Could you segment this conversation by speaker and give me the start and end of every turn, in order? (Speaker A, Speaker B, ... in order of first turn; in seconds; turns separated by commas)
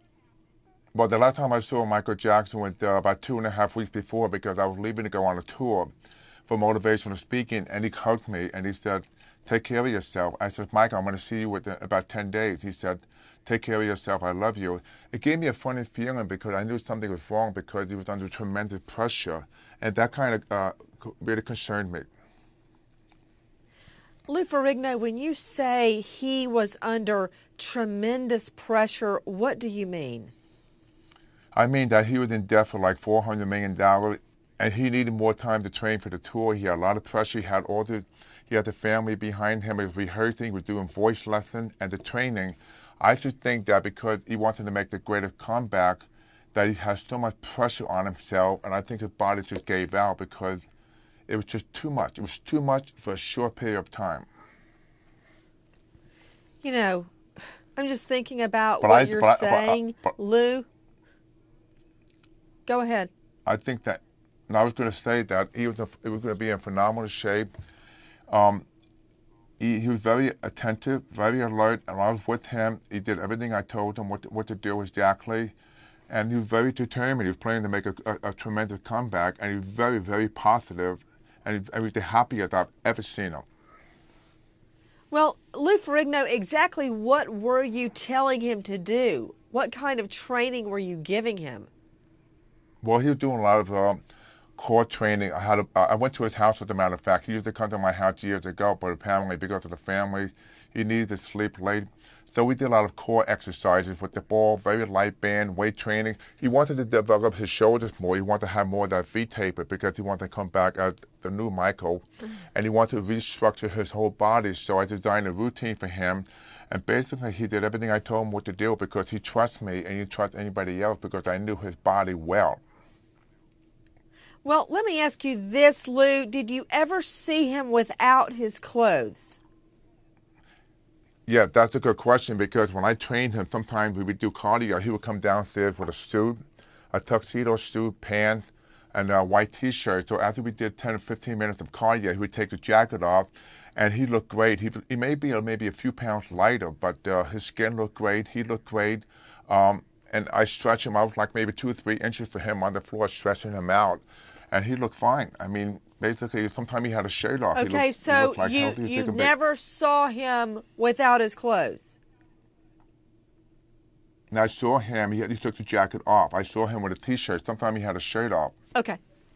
Speaker A: 0.9-5.9, Speaker A: 6.5-22.1, Speaker B: 24.3-30.3, Speaker A: 31.5-50.6, Speaker A: 51.3-54.3, Speaker B: 56.6-57.1, Speaker B: 57.8-60.6, Speaker A: 58.8-60.1, Speaker B: 62.6-63.1, Speaker A: 63.5-67.5, Speaker A: 68.3-68.6, Speaker A: 69.6-75.5, Speaker A: 76.1-83.4, Speaker B: 85.1-91.7, Speaker A: 92.8-94.0, Speaker A: 94.5-112.0, Speaker A: 112.5-122.6, Speaker B: 124.4-129.4, Speaker A: 131.2-159.3, Speaker B: 157.5-162.0, Speaker A: 164.3-168.6